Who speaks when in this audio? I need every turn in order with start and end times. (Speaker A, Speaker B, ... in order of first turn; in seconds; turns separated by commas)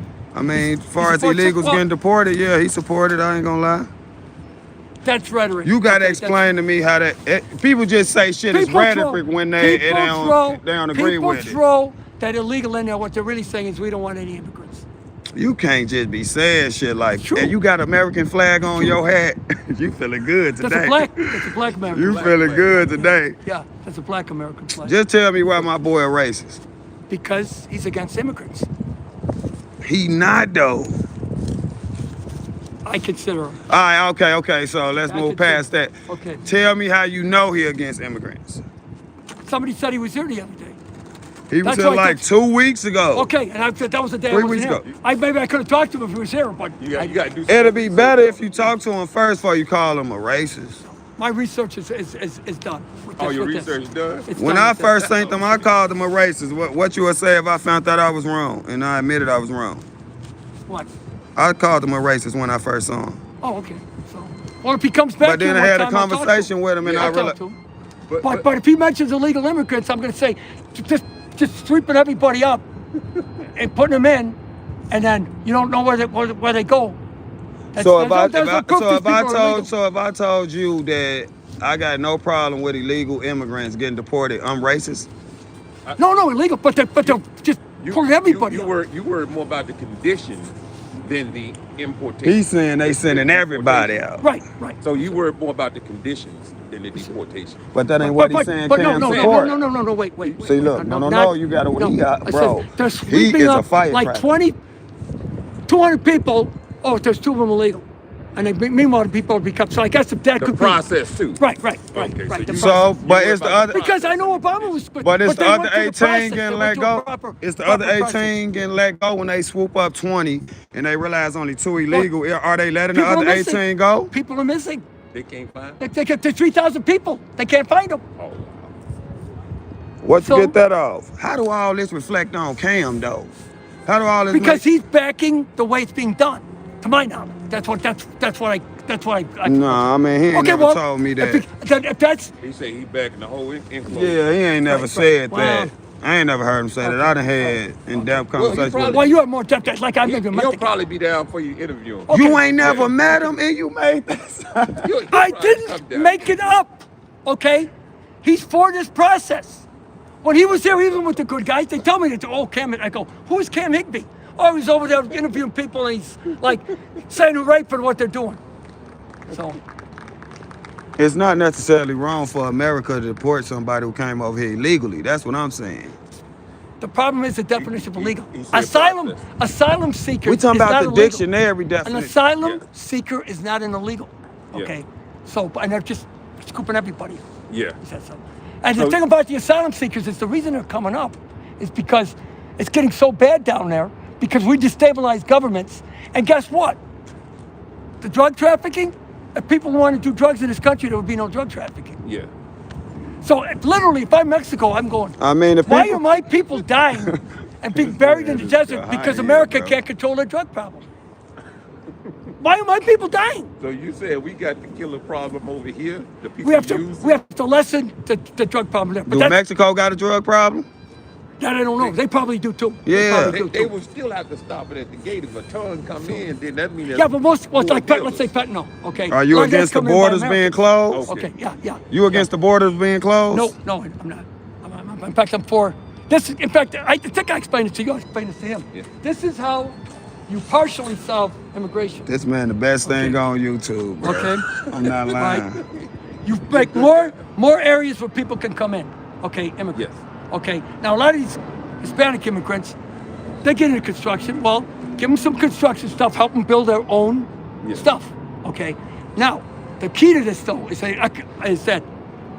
Speaker A: 0.3-3.9, Speaker B: 1.0-1.8, Speaker B: 5.0-6.5, Speaker A: 5.6-11.6, Speaker B: 8.5-14.8, Speaker A: 15.3-23.4, Speaker B: 17.2-17.5, Speaker B: 20.6-22.3, Speaker C: 21.8-23.0, Speaker B: 22.9-24.9, Speaker A: 24.8-26.6, Speaker B: 27.1-28.7, Speaker A: 29.8-31.0, Speaker B: 32.8-33.6, Speaker A: 33.7-35.9, Speaker B: 35.0-36.4, Speaker A: 36.4-38.6, Speaker B: 39.4-40.8, Speaker A: 41.5-43.3, Speaker B: 41.6-42.2, Speaker B: 43.1-47.2, Speaker A: 44.3-44.9, Speaker C: 46.8-48.7, Speaker A: 47.5-50.8, Speaker B: 50.9-53.7, Speaker C: 53.2-54.3, Speaker B: 54.2-55.1, Speaker A: 54.4-59.8, Speaker C: 55.0-55.6, Speaker A: 61.4-63.2, Speaker B: 63.4-67.6, Speaker A: 65.2-67.4, Speaker C: 66.8-67.3, Speaker C: 68.1-68.4, Speaker B: 68.2-72.6, Speaker B: 73.5-74.4, Speaker B: 74.9-77.0, Speaker B: 77.7-79.7, Speaker A: 77.7-85.1, Speaker B: 86.0-88.7, Speaker C: 87.8-93.9, Speaker A: 92.2-94.2, Speaker B: 94.2-95.1, Speaker C: 94.8-97.6, Speaker A: 97.7-99.6, Speaker B: 98.0-104.6, Speaker C: 98.8-99.6, Speaker A: 100.4-104.3, Speaker B: 105.7-107.8, Speaker B: 108.3-110.8, Speaker C: 110.4-111.4, Speaker B: 111.4-112.9, Speaker C: 111.9-114.8, Speaker A: 112.5-113.8, Speaker B: 113.7-118.3, Speaker A: 115.0-124.1, Speaker B: 122.9-124.8, Speaker C: 125.1-125.8, Speaker B: 125.8-128.0, Speaker C: 128.2-128.7, Speaker A: 130.0-133.3, Speaker B: 130.2-130.5, Speaker A: 133.8-134.6, Speaker B: 134.3-142.3, Speaker A: 139.4-141.4, Speaker C: 142.4-144.2, Speaker A: 143.8-149.0, Speaker B: 144.7-145.7, Speaker B: 146.8-147.6, Speaker C: 148.3-149.1, Speaker B: 148.9-150.7, Speaker C: 150.0-153.2, Speaker B: 152.1-152.4, Speaker A: 152.1-154.9, Speaker C: 154.8-156.5, Speaker B: 155.1-157.7, Speaker B: 158.2-159.7, Speaker B: 160.2-168.4, Speaker B: 169.3-169.6, Speaker A: 171.0-175.9, Speaker B: 176.8-181.2, Speaker C: 177.6-179.2, Speaker A: 180.2-182.1, Speaker B: 181.8-187.2, Speaker C: 187.5-187.8, Speaker B: 187.8-196.8, Speaker B: 198.0-202.0, Speaker C: 202.0-202.3, Speaker B: 203.2-210.8, Speaker A: 205.2-206.0, Speaker A: 207.7-209.7, Speaker C: 208.3-209.6, Speaker B: 212.4-213.5, Speaker C: 213.6-217.2, Speaker B: 216.4-219.4, Speaker A: 219.1-220.7, Speaker B: 221.4-223.7, Speaker A: 222.8-223.4, Speaker C: 223.2-228.3, Speaker B: 226.9-230.6, Speaker A: 229.1-231.1, Speaker C: 230.9-231.3, Speaker B: 231.1-231.8, Speaker A: 231.9-233.5, Speaker B: 233.3-242.1, Speaker A: 242.1-245.6, Speaker B: 242.8-243.2, Speaker B: 244.0-244.5, Speaker C: 244.7-245.1, Speaker B: 245.1-245.5, Speaker B: 246.2-252.8, Speaker C: 246.5-247.1, Speaker C: 249.7-250.0, Speaker B: 253.4-261.9